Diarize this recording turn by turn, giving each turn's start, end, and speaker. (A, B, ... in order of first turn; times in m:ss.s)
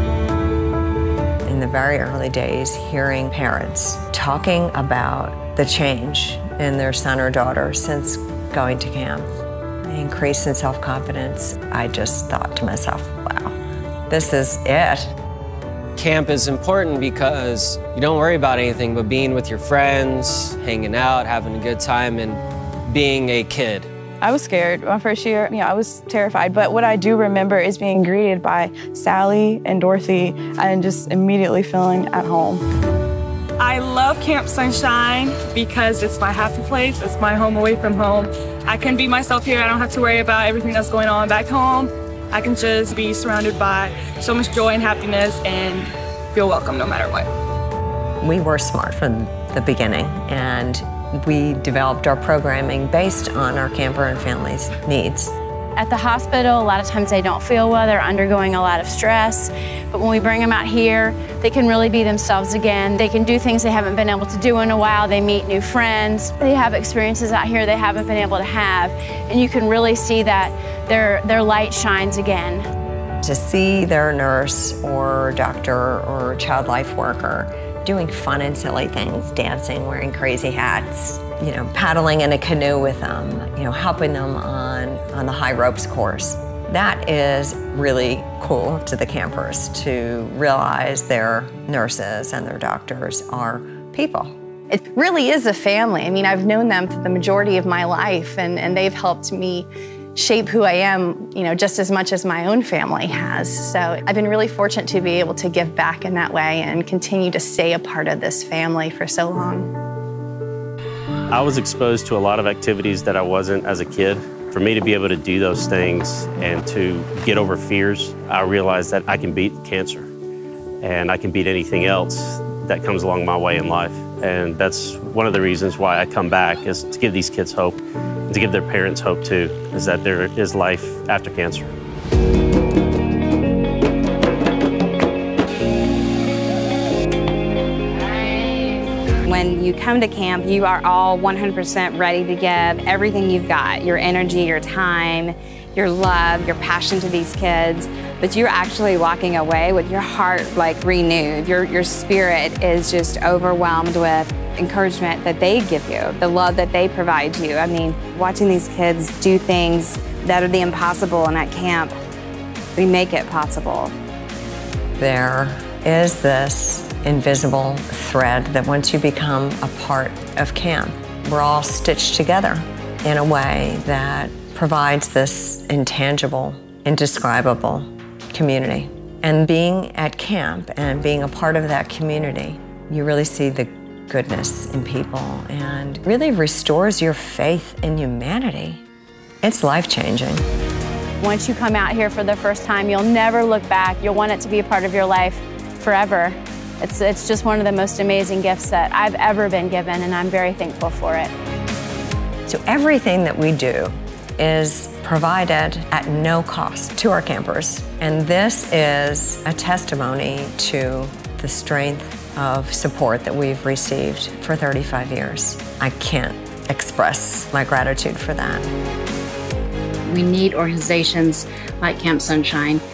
0:01.4-0:09.3 A
0:09.8-0:13.6 A
0:14.1-0:15.1 A
0:16.0-0:23.9 B
0:24.2-0:32.6 C
0:33.6-0:47.3 D
0:48.2-0:55.3 A
0:55.8-1:12.6 E
1:13.2-1:34.4 A
1:34.7-1:49.7 F
1:51.3-2:00.1 G
2:00.8-2:07.8 G
2:08.3-2:11.7 G
2:19.2-2:41.9 H
2:42.8-2:43.9 H
2:45.0-3:08.8 A
3:09.4-3:10.4 A
3:11.2-3:21.3 E
3:22.5-3:38.7 A
3:40.1-3:42.8 I